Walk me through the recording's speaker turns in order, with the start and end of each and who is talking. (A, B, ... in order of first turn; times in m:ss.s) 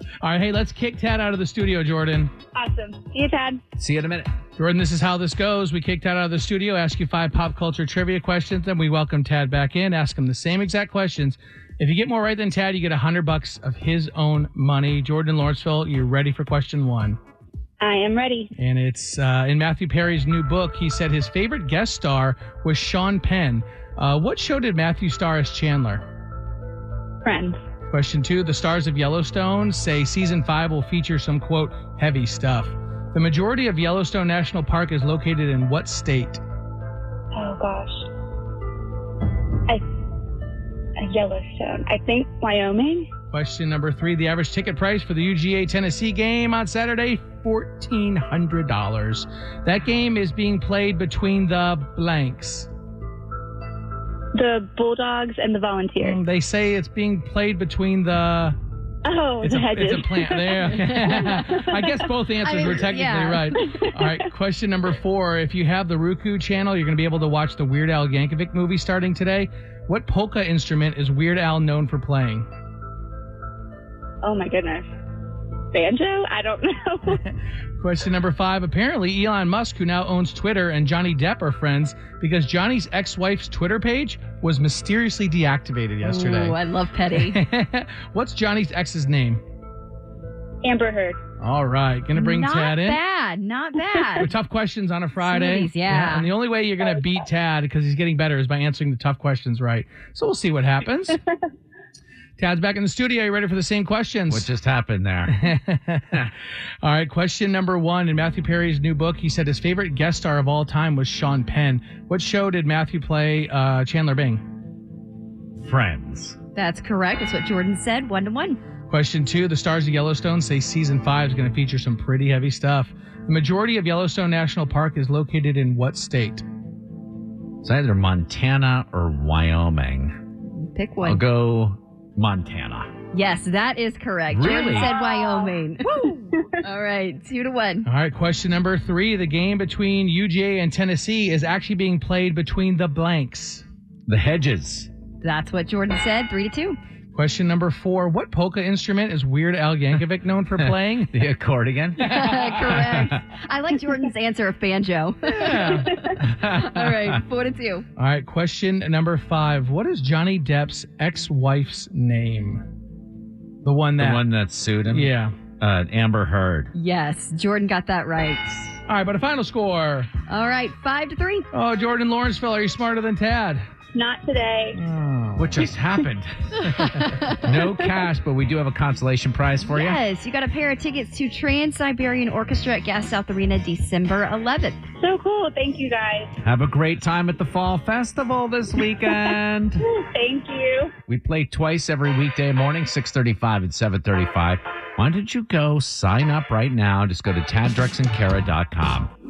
0:00.2-0:02.3 A
0:02.5-0:03.6 B
0:03.8-0:04.3 C
0:04.6-0:17.2 A
0:17.8-0:18.5 B
0:18.6-0:26.0 A
0:27.2-0:27.6 B
0:27.9-0:36.4 A
0:37.4-0:38.1 B
0:41.0-0:43.1 B
0:43.3-0:52.7 A
0:54.4-0:56.2 B
0:56.0-0:58.6 A
0:59.1-0:59.7 B
0:59.4-1:12.5 A
1:00.7-1:01.4 D
1:02.4-1:03.6 D
1:03.7-1:04.3 B
1:14.2-1:14.9 B
1:15.7-1:17.2 B
1:17.8-1:26.6 A
1:26.0-1:27.4 D
1:27.2-1:29.4 A
1:30.6-1:31.2 B
1:31.4-1:33.0 A
1:32.2-1:34.3 D
1:34.2-1:41.2 A
1:35.2-1:36.3 D
1:42.4-1:44.5 A
1:44.3-1:45.4 C
1:45.3-1:46.2 A
1:46.8-1:54.4 A
1:55.6-1:56.4 C
1:56.6-1:58.6 D
1:58.9-2:06.4 A
2:07.6-2:10.2 C
2:10.5-2:11.2 D
2:11.0-2:12.9 C
2:13.1-2:17.9 D
2:14.3-2:14.9 C
2:17.8-2:23.6 A
2:24.1-2:24.9 C
2:25.2-2:26.8 D
2:27.1-2:31.1 A
2:30.6-2:33.2 C
2:32.0-2:37.8 D
2:35.3-2:36.2 A
2:36.2-2:37.2 C
2:38.0-2:42.6 A
2:43.6-2:44.2 A
2:44.0-2:46.7 C
2:44.9-2:45.4 A
2:46.7-2:48.8 D
2:48.9-2:50.1 A
2:50.3-2:51.5 D
2:51.5-2:53.6 A
2:53.9-2:54.8 B
2:54.7-2:55.7 A
2:55.4-3:00.0 C
2:56.6-2:57.8 D
2:59.6-3:04.8 D
3:05.0-3:06.3 B
3:06.4-3:09.8 C
3:08.8-3:10.9 B
3:11.1-3:19.1 C